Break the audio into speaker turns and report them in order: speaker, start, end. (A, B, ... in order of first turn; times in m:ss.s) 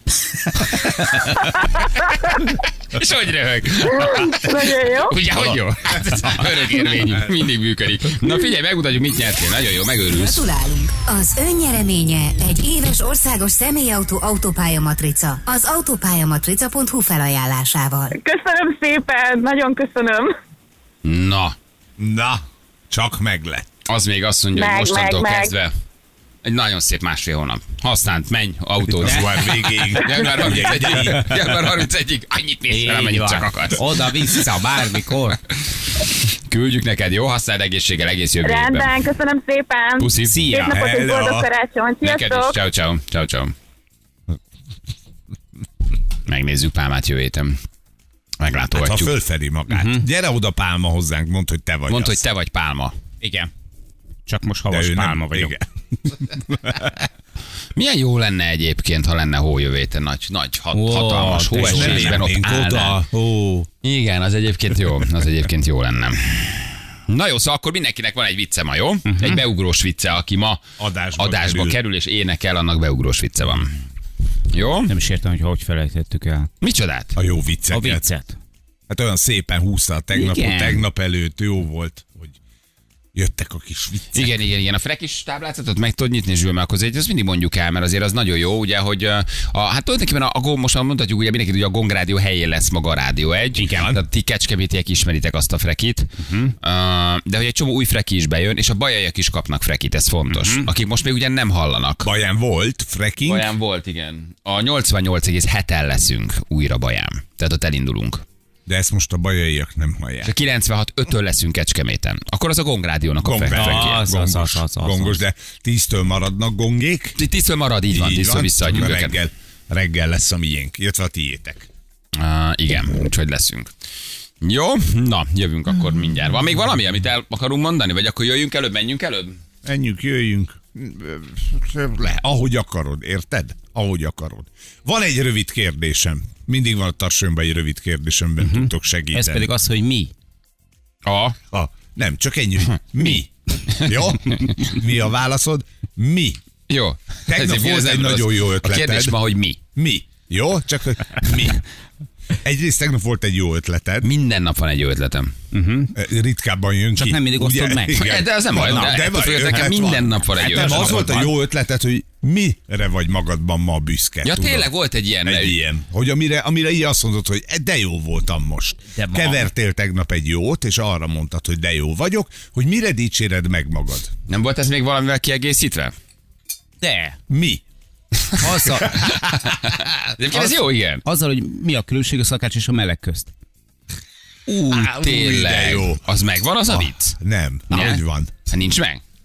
0:00.5-0:01.6 A
0:01.8-0:02.2 B
0:02.9-0:10.4 A
0:03.9-0:05.2 B
0:10.1-0:18.1 C
0:18.1-0:20.3 B
0:21.0-0:21.6 A
0:22.0-0:23.7 D
0:23.9-0:25.7 A
0:24.6-0:25.5 B
0:26.4-0:33.8 A
0:28.9-0:31.6 D
0:31.0-0:31.3 E
0:32.7-0:35.4 E
0:36.0-0:39.0 A
0:38.4-0:42.6 B
0:40.0-0:40.6 A
0:40.2-0:40.8 E
0:40.7-0:41.5 D
0:42.0-0:43.5 A
0:46.3-0:47.6 A
0:48.4-0:49.1 A
0:48.8-0:52.2 D
0:49.7-0:50.1 E
0:51.9-0:52.9 A
0:53.2-0:53.5 E
0:54.3-0:55.6 E
0:54.7-0:55.6 D
0:57.8-1:03.0 A
1:00.7-1:02.2 E
1:01.6-1:03.7 D
1:03.8-1:10.6 A
1:09.1-1:09.4 E
1:10.8-1:11.8 D
1:11.2-1:13.8 A
1:14.5-1:14.9 A
1:14.9-1:16.5 E
1:16.6-1:17.2 A
1:17.2-1:18.0 D
1:17.7-1:18.4 E
1:18.9-1:22.4 D
1:20.1-1:20.9 E
1:23.1-1:24.4 D
1:24.1-1:36.1 A
1:33.6-1:34.0 E
1:36.2-1:36.5 E
1:36.6-1:42.1 A
1:40.3-1:40.7 E
1:42.0-1:43.5 D
1:43.3-1:48.2 A
1:48.7-1:50.3 D
1:50.2-1:54.1 A
1:53.2-1:57.2 D
1:53.5-1:55.2 E
1:57.2-1:59.2 A
1:57.9-2:01.7 D
2:02.2-2:03.7 A
2:04.4-2:09.4 A
2:09.6-2:19.5 D
2:18.4-2:20.1 E
2:21.0-2:21.4 A
2:21.5-2:26.4 D
2:23.7-2:24.5 A
2:26.7-2:29.6 A
2:27.3-2:29.2 D
2:29.8-2:31.6 D
2:32.4-2:34.1 D
2:34.0-2:35.3 A
2:35.5-2:36.0 E
2:35.9-2:44.7 D
2:37.0-2:39.0 E
2:37.9-2:41.1 A
2:40.4-2:41.3 E
2:44.2-2:45.6 A
2:45.2-2:54.1 D
2:48.9-2:49.4 E
2:54.3-2:55.9 A
2:56.8-2:57.2 E
2:57.3-2:57.6 D
2:58.3-3:01.0 A
2:58.4-2:59.2 E
3:01.0-3:03.3 E
3:04.6-3:06.0 D
3:04.7-3:07.2 A
3:06.7-3:08.3 D
3:07.7-3:09.0 A